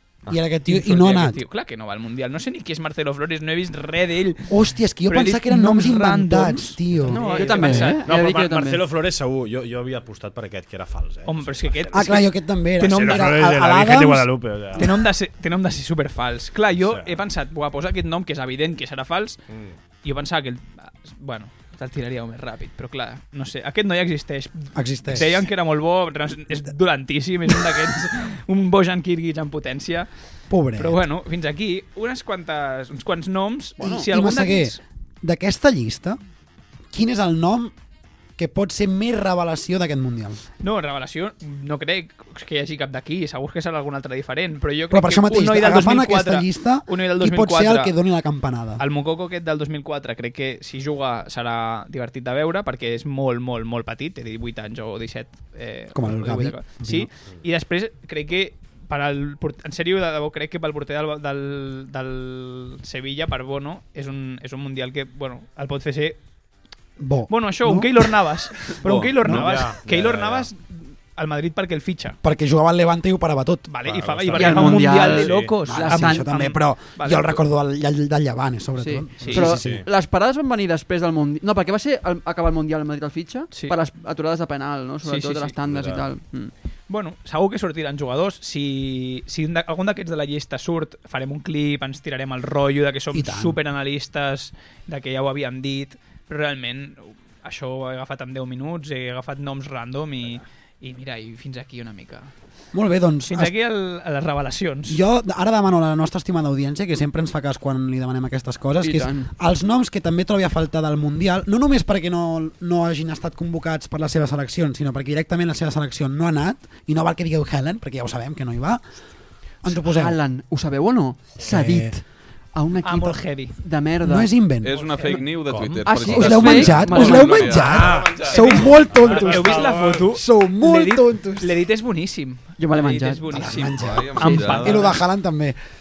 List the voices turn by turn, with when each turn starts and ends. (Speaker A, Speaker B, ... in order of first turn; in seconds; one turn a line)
Speaker A: 0.3-1.4
Speaker B: 0.7-8.0
Speaker A: 4.5-7.3
Speaker C: 7.1-8.8
Speaker D: 7.2-12.2
Speaker B: 11.3-12.3
Speaker A: 11.9-14.9
Speaker B: 12.8-13.4
Speaker D: 12.8-15.0
Speaker B: 14.8-19.4
Speaker D: 16.8-17.2
Speaker D: 19.5-19.8
Speaker B: 20.0-30.1
Speaker A: 24.8-25.4
Speaker A: 30.5-31.0
Speaker B: 30.8-34.8
Speaker A: 33.8-36.2
Speaker A: 36.9-37.7
Speaker A: 38.4-40.4
Speaker B: 40.6-47.9
Speaker A: 44.9-48.8
Speaker B: 48.8-66.2
Speaker A: 55.9-57.1
Speaker A: 67.0-68.1
Speaker B: 67.3-72.2
Speaker E: 68.8-69.2
Speaker A: 69.2-69.5
Speaker D: 69.2-70.5
Speaker A: 72.2-73.7
Speaker B: 73.7-77.4
Speaker D: 73.8-75.6
Speaker C: 74.3-76.3
Speaker A: 75.7-79.8
Speaker C: 78.8-86.5
Speaker B: 79.2-79.6
Speaker D: 79.4-79.9
Speaker B: 85.0-85.5
Speaker D: 85.6-86.1
Speaker B: 86.9-102.3
Speaker A: 93.1-93.6
Speaker A: 102.7-103.5
Speaker B: 103.3-105.0
Speaker A: 104.9-118.8
Speaker C: 108.8-109.3
Speaker A: 119.6-120.2
Speaker C: 119.7-122.0
Speaker A: 121.4-122.0
Speaker C: 122.5-124.3
Speaker B: 122.8-123.5
Speaker A: 124.0-124.8
Speaker E: 124.6-128.8
Speaker D: 125.0-125.9
Speaker C: 125.8-127.6
Speaker A: 126.0-131.6
Speaker D: 127.5-130.1
Speaker B: 128.3-134.9
Speaker C: 132.6-133.5
Speaker A: 133.3-135.6
Speaker E: 133.7-134.9
Speaker C: 134.2-134.7